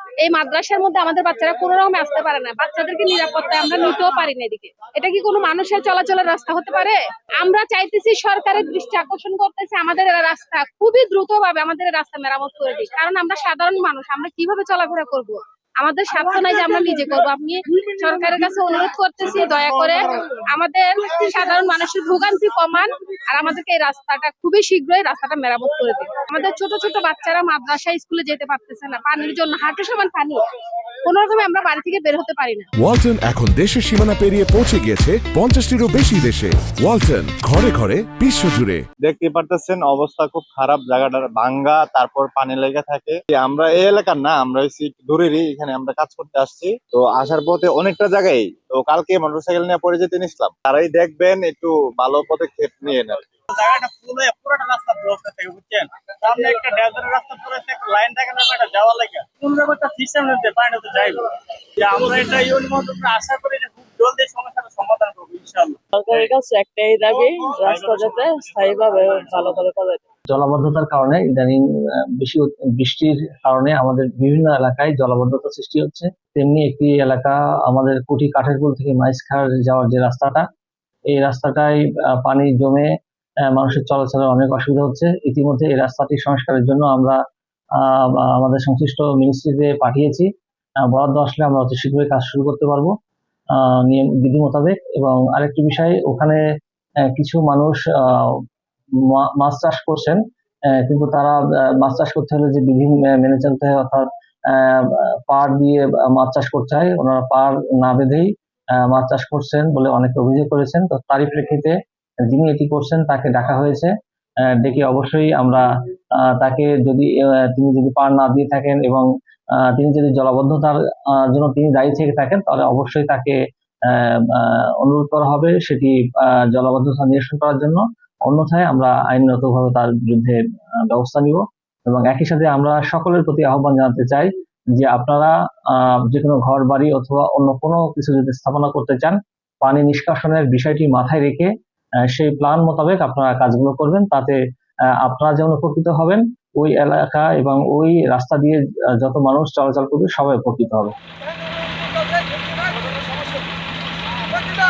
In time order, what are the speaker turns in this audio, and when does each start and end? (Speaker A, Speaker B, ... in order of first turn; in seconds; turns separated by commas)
Speaker A: 0.2-30.4, Speaker A: 31.0-32.6, Speaker B: 32.8-38.8, Speaker C: 39.0-53.3, Speaker D: 53.5-61.2, Speaker D: 61.8-66.4, Speaker E: 66.2-69.3, Speaker D: 67.4-69.9, Speaker F: 70.3-80.5, Speaker F: 81.1-82.9, Speaker F: 83.5-87.2, Speaker F: 87.8-90.3, Speaker F: 90.8-92.9, Speaker F: 93.6-96.4, Speaker F: 97.1-98.4, Speaker F: 99.1-100.2, Speaker F: 100.7-111.7, Speaker F: 112.3-113.9, Speaker F: 114.5-119.1, Speaker F: 119.6-141.5, Speaker F: 142.1-144.4, Speaker F: 145.0-150.9